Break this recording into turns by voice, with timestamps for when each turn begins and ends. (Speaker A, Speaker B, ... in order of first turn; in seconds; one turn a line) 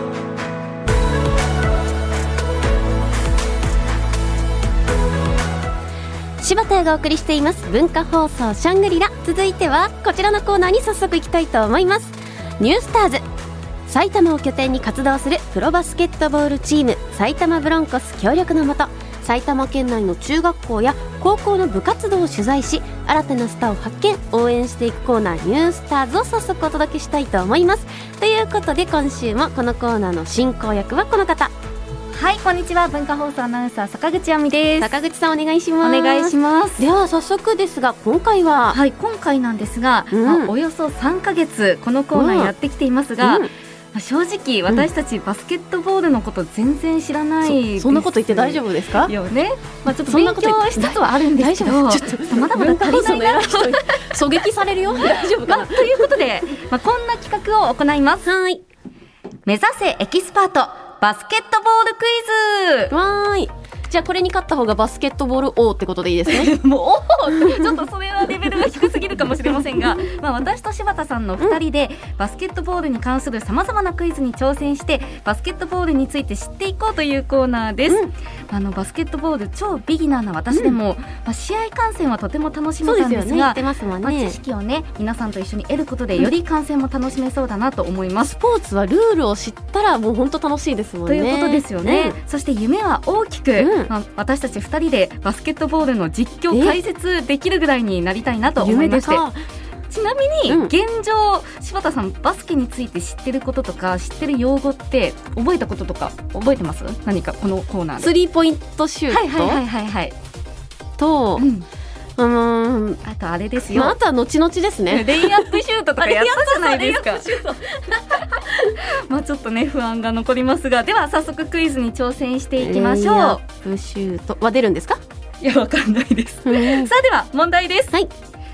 Speaker A: 6.4-13.2
Speaker A: 13.9-31.5
Speaker B: 32.1-34.9
Speaker A: 34.8-38.8
Speaker B: 35.8-36.9
Speaker B: 38.7-54.2
Speaker A: 40.1-40.5
Speaker A: 42.1-42.5
Speaker A: 43.2-43.5
Speaker A: 47.4-49.1
Speaker A: 49.9-56.1
Speaker B: 55.0-58.2
Speaker A: 58.2-58.6
Speaker B: 59.5-62.9
Speaker A: 62.9-66.5
Speaker B: 66.3-88.3
Speaker A: 80.5-80.8
Speaker A: 82.8-84.4
Speaker A: 88.2-92.2
Speaker B: 91.1-99.2
Speaker A: 93.6-93.9
Speaker A: 96.5-96.8
Speaker A: 98.6-99.4
Speaker B: 99.9-108.1
Speaker A: 100.5-100.7
Speaker A: 108.0-109.6
Speaker B: 109.1-110.1
Speaker A: 111.0-111.5
Speaker B: 111.4-111.7
Speaker A: 112.2-113.0
Speaker B: 113.0-114.0
Speaker A: 113.7-118.4
Speaker B: 114.9-117.3
Speaker B: 118.1-123.4
Speaker A: 122.6-125.0
Speaker B: 125.4-128.0
Speaker A: 126.5-126.9